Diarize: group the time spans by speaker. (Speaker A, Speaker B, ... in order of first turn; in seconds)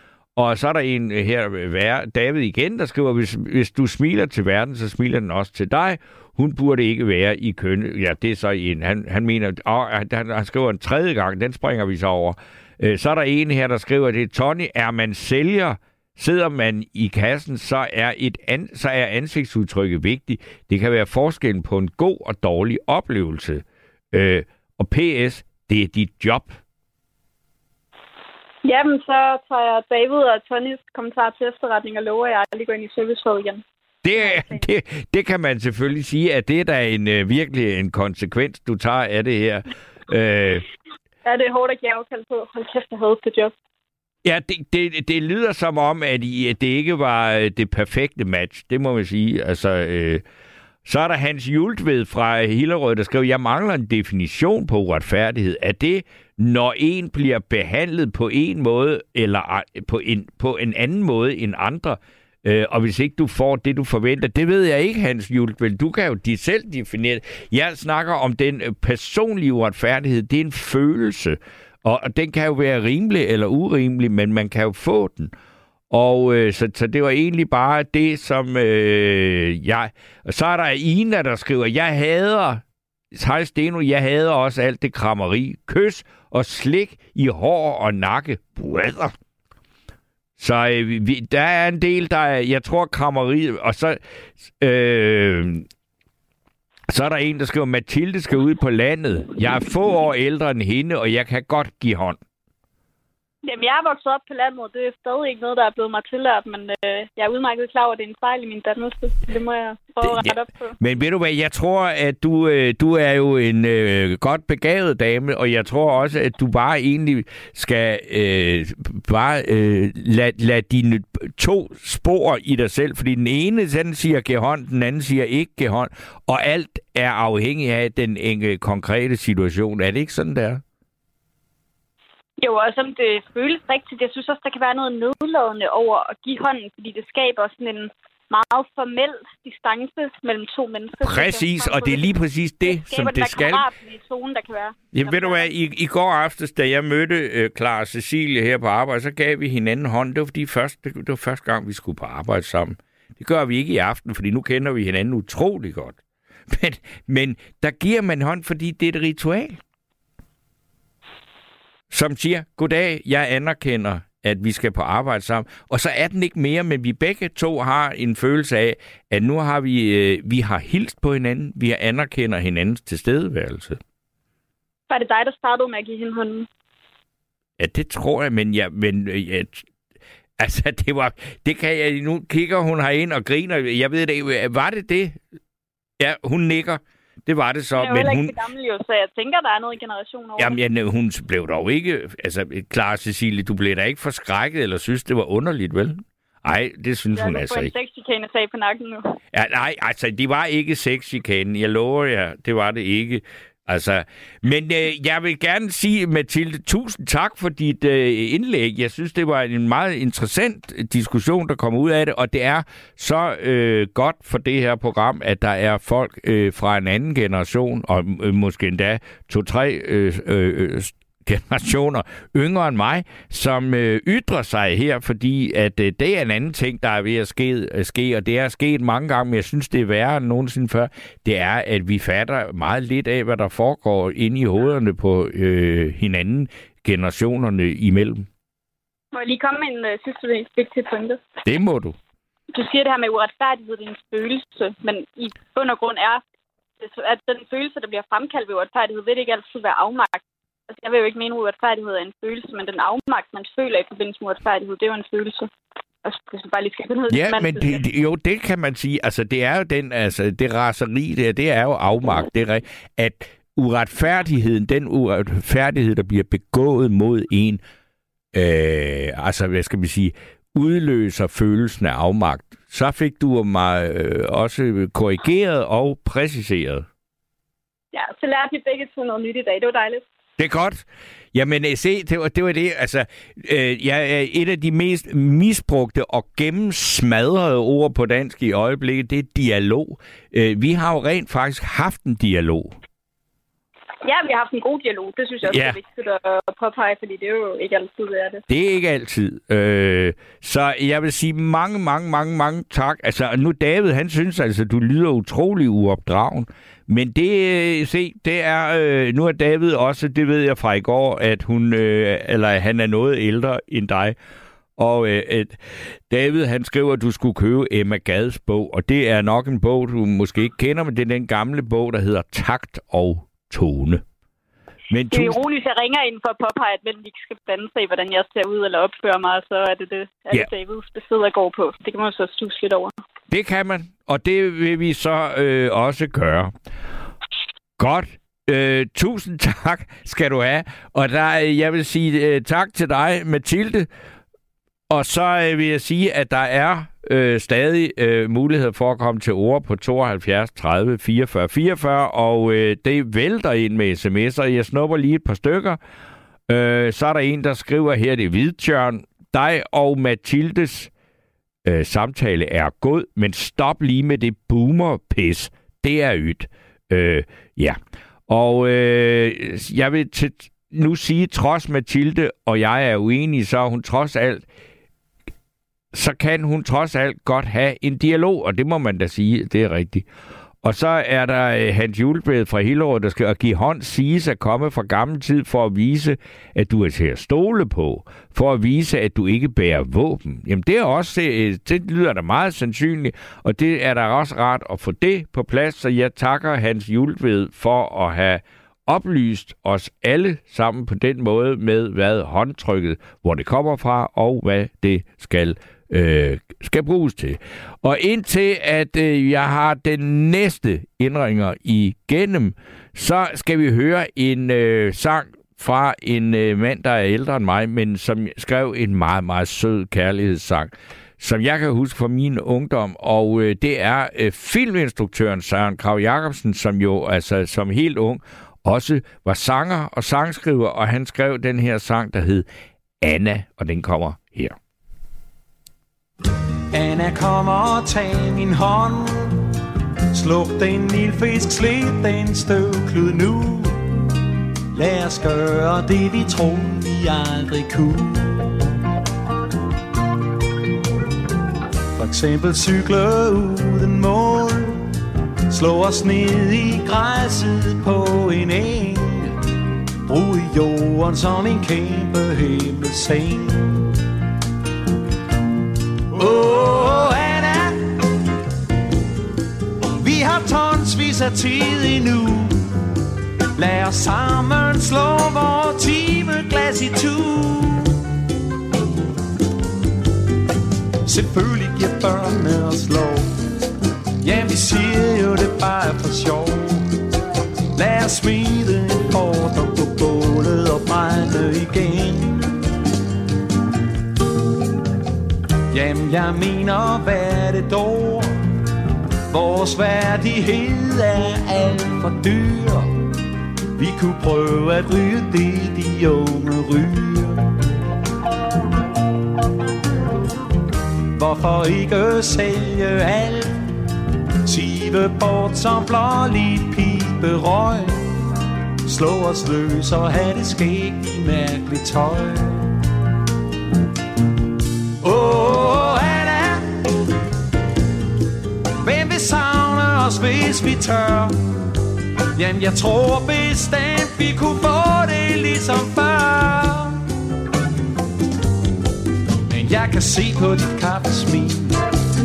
Speaker A: 0.4-26.6, 34.0-40.6, 44.2-50.2, 50.9-75.3, 75.9-82.6, 83.1-89.1, 90.4-95.7, 96.9-102.2, 110.0-130.6, 141.0-143.6, 144.9-156.0, 156.5-159.6, 161.9-173.8, 177.6-179.7, 180.4-185.2, 186.0-188.3, 190.4-197.7, 199.3-238.3, 241.4-241.9, 257.1-267.6, 268.3-276.9, 280.4-292.7, 295.4-295.8, 298.5-314.1, 314.8-324.0, 324.9-325.4, 333.3-336.5, 337.8-343.9, 344.9-355.8, 356.5-360.9, 361.6-374.4, 375.9-380.1, 380.6-432.4, 433.0-434.6
Speaker B: 28.6-33.6, 34.1-34.6, 41.2-43.5, 103.4-110.8, 132.4-145.5, 174.9-176.5, 187.8-190.6, 197.1-199.2, 239.1-241.2, 242.5-246.2, 246.8-255.5, 256.0-257.8, 277.9-280.0, 294.0-298.4, 325.1-332.9
Speaker C: 436.7-439.4, 440.1-443.9, 444.7-448.6, 451.9-454.9, 455.5-459.4, 460.1-463.9, 466.1-468.0, 470.0-472.7, 473.6-478.0, 481.1-483.4, 484.2-486.9, 487.7-492.5, 495.7-498.4, 499.3-503.0, 503.8-507.5, 511.1-513.6, 514.4-518.1, 518.9-522.8, 525.0-526.9, 528.8-531.4, 532.4-537.0, 539.5-541.8